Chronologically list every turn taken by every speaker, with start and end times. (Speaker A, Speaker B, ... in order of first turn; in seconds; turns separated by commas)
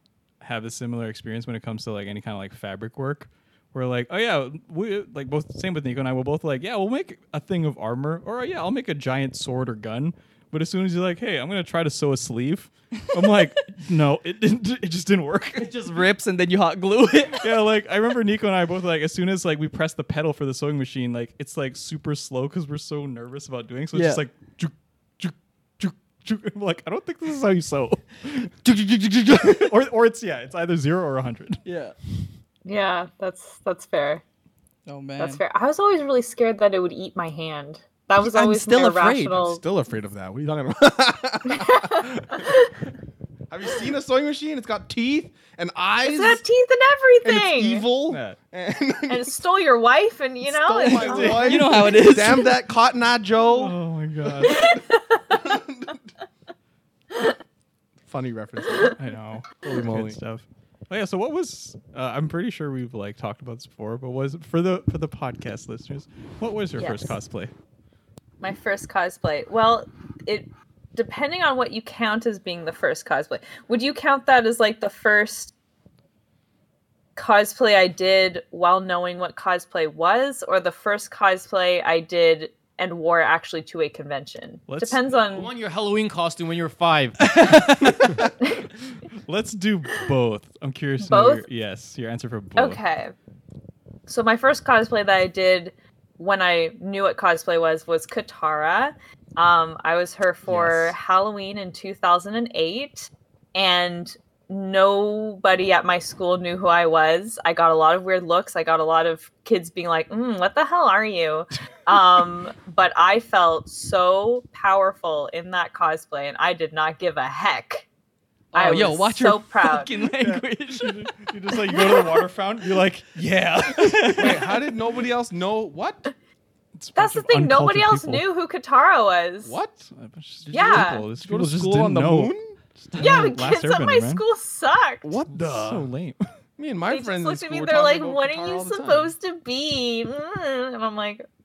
Speaker A: 0.4-15.8, Speaker B: 15.6-17.4, Speaker A: 17.4-31.6, Speaker B: 23.9-24.2, Speaker B: 28.6-29.7, Speaker B: 31.6-31.9, Speaker C: 32.6-34.2, Speaker B: 34.9-35.4, Speaker C: 35.2-39.6, Speaker B: 38.2-39.4, Speaker D: 39.3-42.5, Speaker C: 41.5-42.7, Speaker D: 43.5-46.4, Speaker C: 46.0-47.8, Speaker D: 47.2-49.3, Speaker A: 48.1-48.4, Speaker C: 49.1-51.8, Speaker D: 50.4-53.8, Speaker A: 51.0-51.5, Speaker B: 51.1-52.5, Speaker A: 53.5-54.8, Speaker D: 54.4-54.7, Speaker C: 54.4-55.2, Speaker D: 55.3-56.0, Speaker D: 58.0-59.0, Speaker A: 59.0-67.5, Speaker D: 59.6-60.2, Speaker C: 66.8-67.2, Speaker C: 68.4-75.5, Speaker C: 77.2-85.5, Speaker A: 84.7-85.5, Speaker E: 85.3-87.5, Speaker B: 87.2-88.1, Speaker A: 89.3-92.8, Speaker C: 91.0-91.4, Speaker C: 92.5-93.1, Speaker C: 94.1-117.8, Speaker A: 100.5-100.9, Speaker B: 118.5-121.1, Speaker C: 118.5-119.9, Speaker A: 120.2-124.5, Speaker B: 123.7-124.4, Speaker D: 124.2-126.1, Speaker A: 126.8-128.2, Speaker C: 127.0-129.6, Speaker D: 129.4-129.9, Speaker A: 129.9-134.2, Speaker D: 130.5-132.6, Speaker C: 130.5-131.1, Speaker C: 133.0-135.2, Speaker D: 135.0-135.9, Speaker A: 135.3-136.2, Speaker D: 136.6-139.1, Speaker C: 136.9-141.2